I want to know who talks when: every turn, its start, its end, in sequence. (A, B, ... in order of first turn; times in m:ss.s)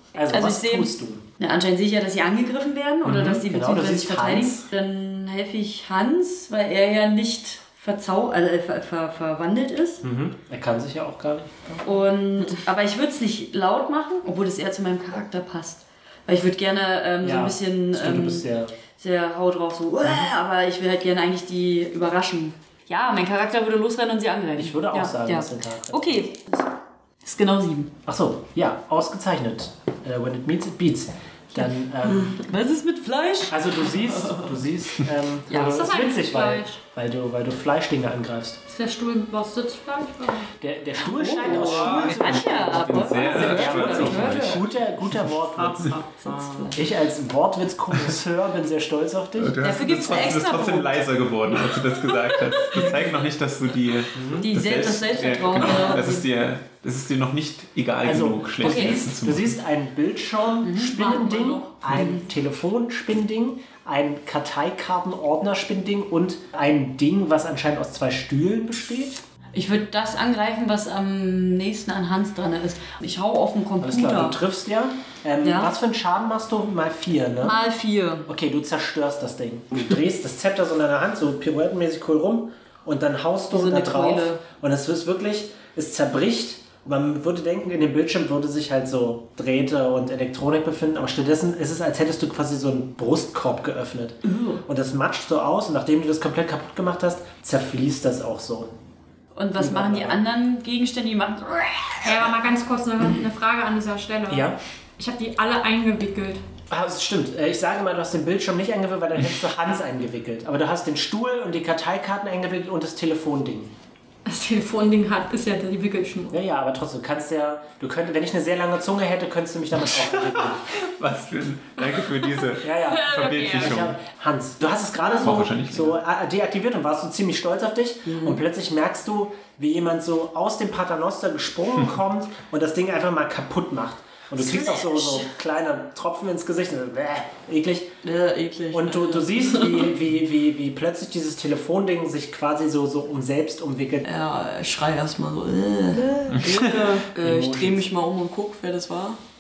0:00.1-0:01.2 A
0:00.3-0:10.0 B
0:03.0-0:04.7 A
0:10.0-0:11.9 A
0:11.8-0:26.7 B
0:17.2-0:18.7 A
0:24.6-0:26.3 A
0:27.2-0:27.9 B
0:28.1-0:32.4 A
0:31.6-0:33.8 B
0:33.5-0:38.6 A
0:35.5-0:35.8 B
0:35.7-0:36.8 C
0:38.7-0:40.5 C
0:40.6-0:46.0 A
0:41.2-0:44.6 B
0:41.2-0:42.2 C
0:41.4-0:44.6 D
0:45.5-0:46.8 E
0:46.2-0:46.8 B
0:46.7-0:49.6 A
0:49.4-0:59.6 D
0:49.6-0:51.0 B
0:51.7-0:53.1 B
0:54.1-0:54.5 A
0:54.4-0:56.2 B
0:58.0-1:09.2 A
0:58.6-0:59.0 B
1:00.6-1:02.2 B
1:01.0-1:01.6 E
1:09.5-1:14.4 B
1:13.8-1:17.6 A
1:15.4-1:15.7 B
1:17.4-1:18.3 B
1:18.3-1:38.7 A
1:23.5-1:24.4 B
1:34.2-1:34.6 B
1:39.4-1:42.2 B
1:39.6-1:40.2 A
1:42.0-1:46.4 C
1:44.3-1:44.6 A
1:46.7-1:53.7 A
1:54.2-1:56.4 C
1:56.3-2:00.7 A
2:00.2-2:04.0 D
2:01.9-2:02.2 C
2:02.6-2:17.9 A
2:02.9-2:03.8 C
2:05.1-2:06.0 D
2:08.1-2:08.4 E
2:14.4-2:15.3 B
2:18.0-2:19.9 E
2:18.7-2:24.1 A
2:24.0-2:29.2 E
2:27.2-2:27.8 A